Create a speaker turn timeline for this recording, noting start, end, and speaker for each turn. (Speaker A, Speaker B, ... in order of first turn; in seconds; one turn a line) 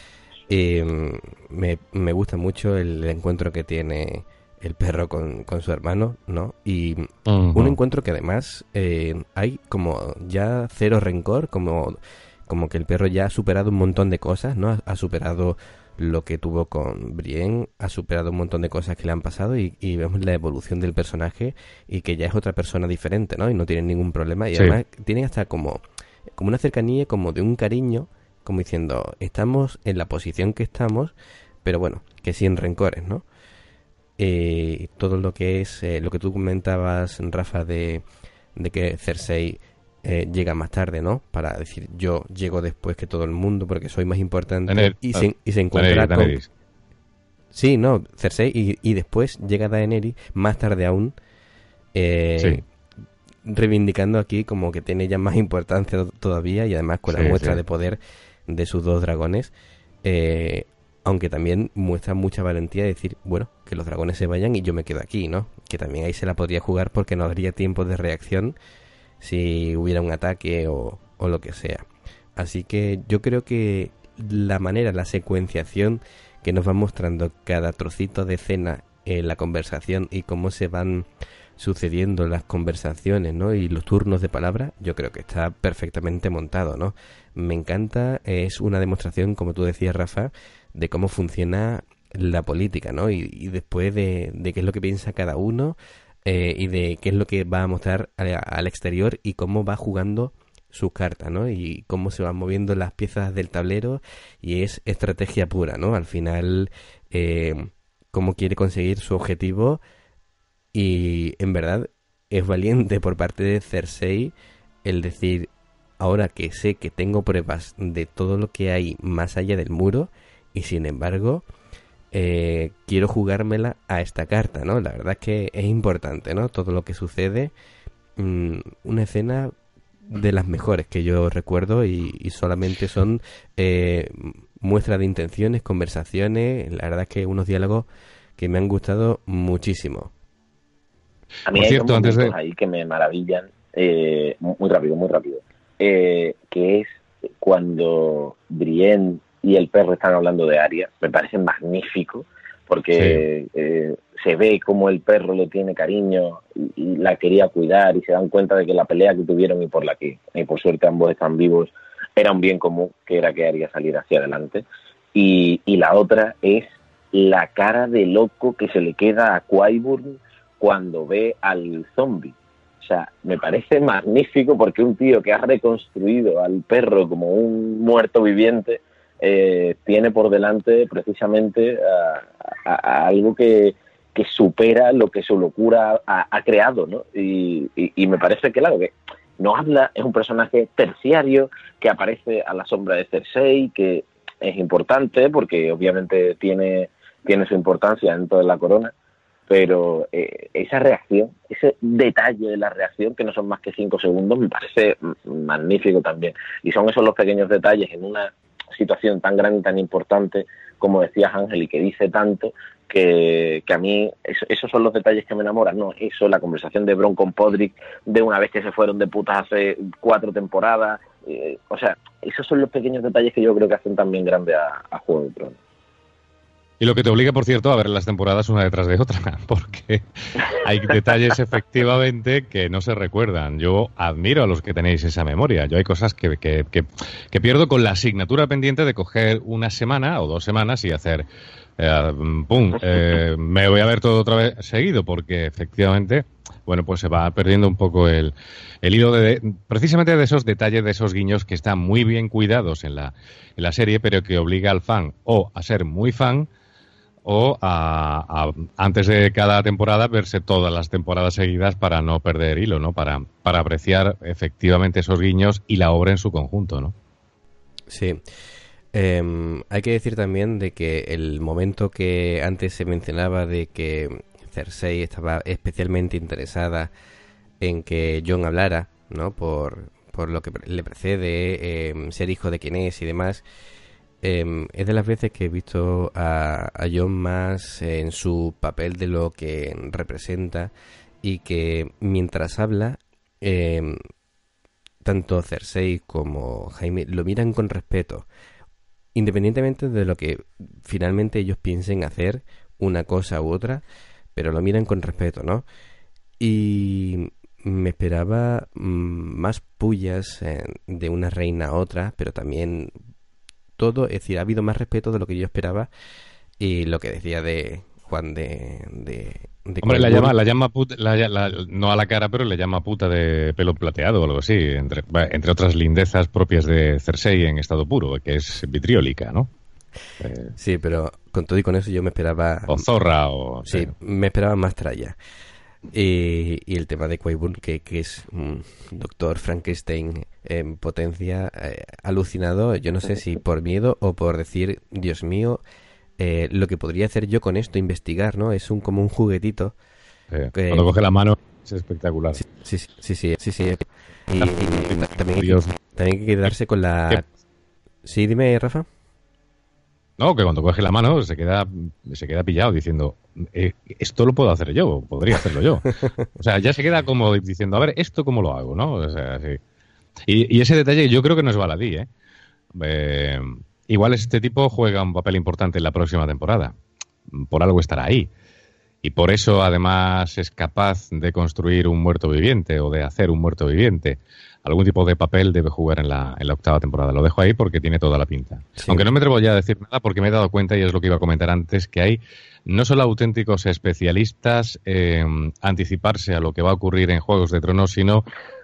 Speaker A: 0.5-25.8
Speaker B: 7.3-7.8
Speaker A: 26.3-33.2
Speaker A: 34.2-38.0
Speaker A: 38.5-46.4
Speaker B: 44.7-46.5
Speaker A: 47.5-51.1
Speaker A: 51.9-52.6
Speaker A: 53.4-59.5
Speaker B: 57.1-57.6
Speaker A: 60.0-68.5
Speaker A: 69.2-109.8
Speaker A: 110.7-121.5
Speaker A: 122.1-127.5
Speaker A: 128.2-129.5
Speaker A: 130.1-137.9
Speaker A: 138.4-140.1
Speaker C: 141.5-146.9
Speaker B: 141.5-142.3
Speaker C: 147.4-198.9
Speaker B: 153.0-153.2
Speaker C: 199.5-225.6
Speaker B: 226.8-241.2
Speaker B: 241.8-256.5
Speaker B: 257.2-266.9
Speaker A: 267.9-268.2
Speaker A: 268.9-276.9
Speaker A: 277.6-283.4
Speaker A: 284.2-290.7
Speaker A: 291.2-294.0
Speaker A: 295.0-298.3
Speaker A: 299.1-303.8
Speaker A: 304.4-305.6
Speaker A: 306.4-312.9
Speaker A: 313.8-315.9
Speaker A: 316.6-320.4
Speaker B: 319.8-329.5
Speaker B: 330.2-330.5
Speaker A: 330.6-332.9
Speaker B: 332.7-333.9
Speaker A: 333.7-335.2
Speaker A: 335.9-345.6
Speaker A: 346.2-349.8
Speaker B: 350.3-352.4
Speaker A: 350.5-350.9
Speaker A: 352.3-357.3
Speaker B: 354.4-355.8
Speaker A: 358.0-358.9
Speaker B: 360.2-369.6
Speaker B: 370.3-372.1
Speaker B: 372.7-376.7
Speaker B: 377.3-378.3
Speaker B: 379.0-398.3
Speaker A: 388.8-389.1